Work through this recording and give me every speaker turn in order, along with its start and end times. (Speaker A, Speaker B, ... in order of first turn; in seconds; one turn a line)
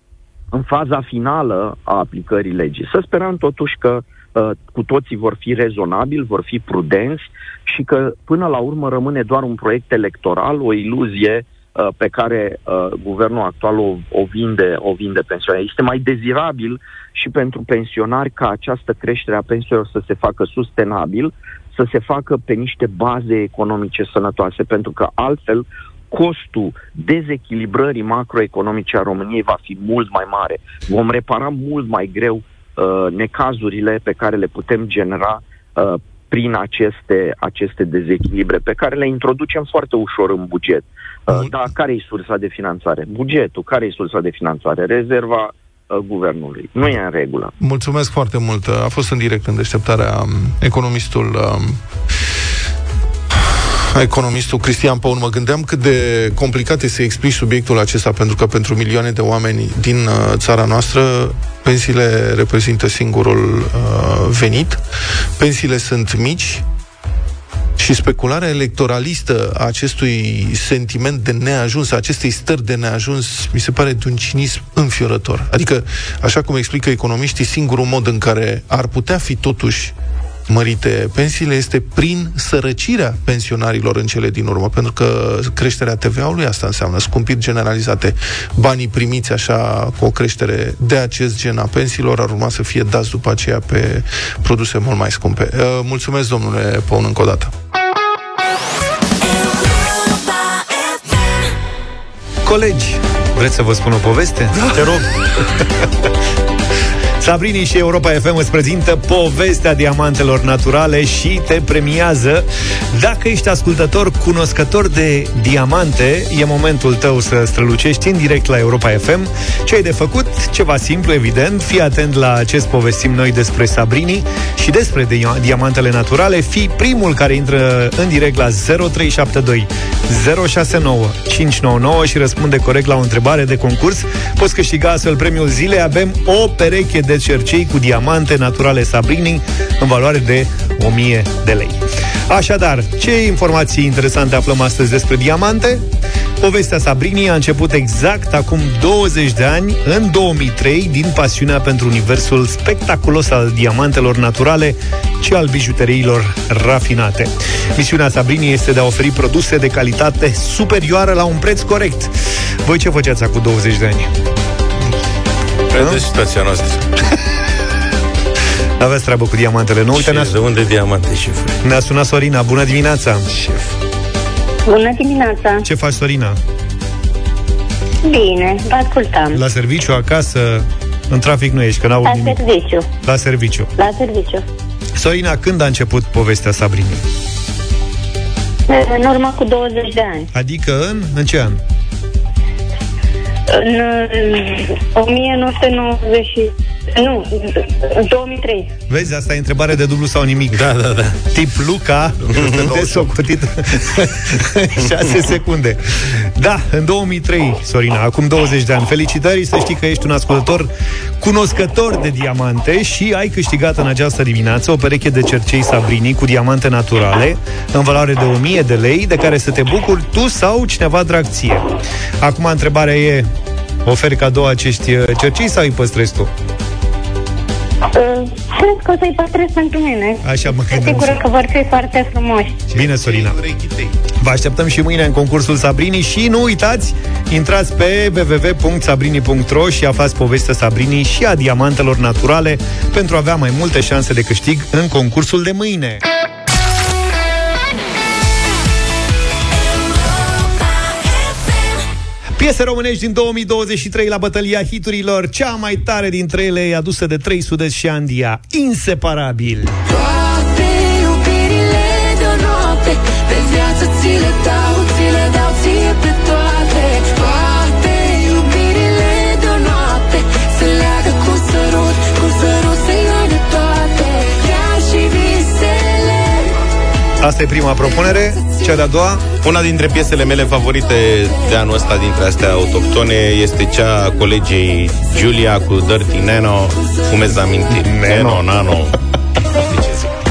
Speaker A: 0.5-47.5
Speaker B: 47.6-51.8
Speaker B: 53.3-64.8
Speaker B: 65.4-66.7
Speaker B: 67.8-79.9
Speaker B: 80.5-97.5
Speaker C: 102.5-104.6
Speaker D: 104.7-105.1
Speaker C: 107.2-145.8
Speaker C: 146.4-162.1
Speaker C: 162.7-164.1
Speaker D: 165.7-166.8
Speaker C: 168.8-170.3
Speaker D: 169.9-171.6
Speaker C: 171.6-173.3
Speaker E: 174.7-175.6
Speaker C: 175.6-176.4
Speaker E: 178.0-179.4
Speaker C: 179.3-182.4
Speaker E: 182.0-182.9
Speaker C: 183.0-183.7
Speaker E: 183.8-184.4
Speaker C: 185.0-187.0
Speaker E: 188.7-190.3
Speaker C: 190.3-191.6
Speaker E: 193.5-198.7
Speaker C: 198.9-200.7
Speaker D: 200.5-201.2
Speaker C: 201.3-210.7
Speaker D: 202.3-202.7
Speaker B: 202.4-203.1
Speaker C: 211.2-221.7
Speaker C: 222.2-223.3
Speaker C: 223.8-226.3
Speaker E: 227.9-232.6
Speaker C: 230.2-231.2
Speaker D: 232.7-233.9
Speaker C: 232.7-233.4
Speaker C: 234.2-246.0
Speaker C: 252.4-259.8
Speaker F: 259.9-276.5
Speaker C: 277.2-279.2
Speaker D: 279.4-289.0
Speaker C: 287.7-288.4
Speaker D: 289.5-290.1